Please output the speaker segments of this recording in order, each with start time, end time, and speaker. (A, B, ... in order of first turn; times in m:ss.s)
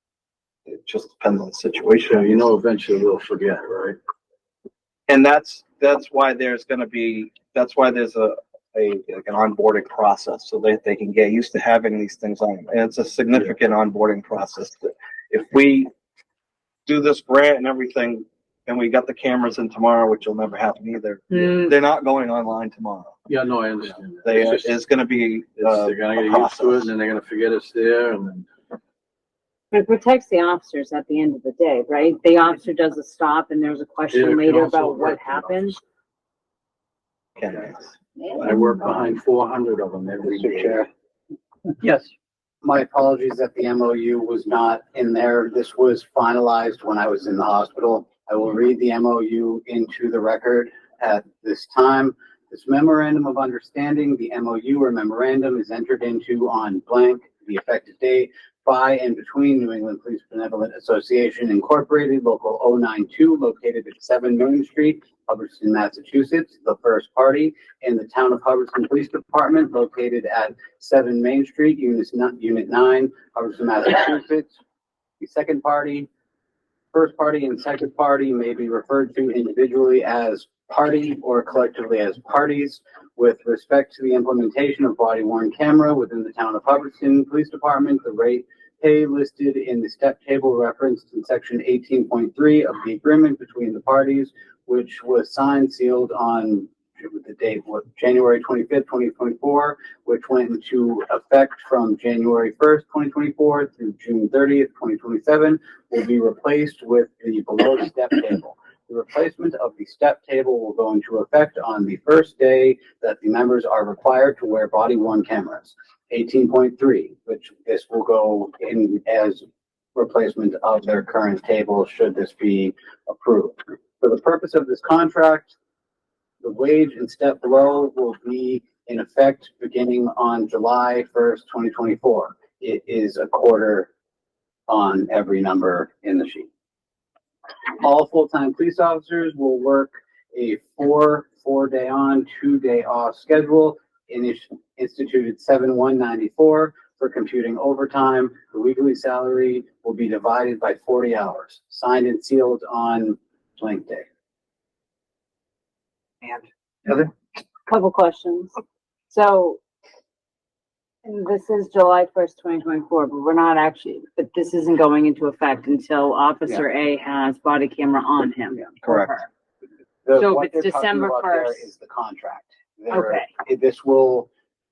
0:00.7-0:02.5 A
0:02.1-0:04.0 B
0:05.1-0:15.9 A
0:16.9-0:23.2 A
0:23.3-0:24.8 B
0:24.2-0:26.9 A
0:25.6-0:28.5 B
0:29.7-0:35.8 C
0:34.1-0:35.8 B
0:37.4-0:38.5 A
0:38.4-0:40.8 B
0:40.2-0:40.9 D
0:42.6-1:14.5 D
1:15.2-1:16.1 D
1:16.9-1:59.4 D
2:00.0-2:05.5 D
2:06.4-2:13.9 D
2:14.7-2:16.5 D
2:17.8-2:34.1 D
2:37.7-2:38.5 C
2:39.1-2:39.6 C
2:41.0-2:49.3 C
2:48.8-2:49.2 A
2:50.0-2:54.3 D
2:50.2-2:51.7 C
2:52.9-2:53.3 C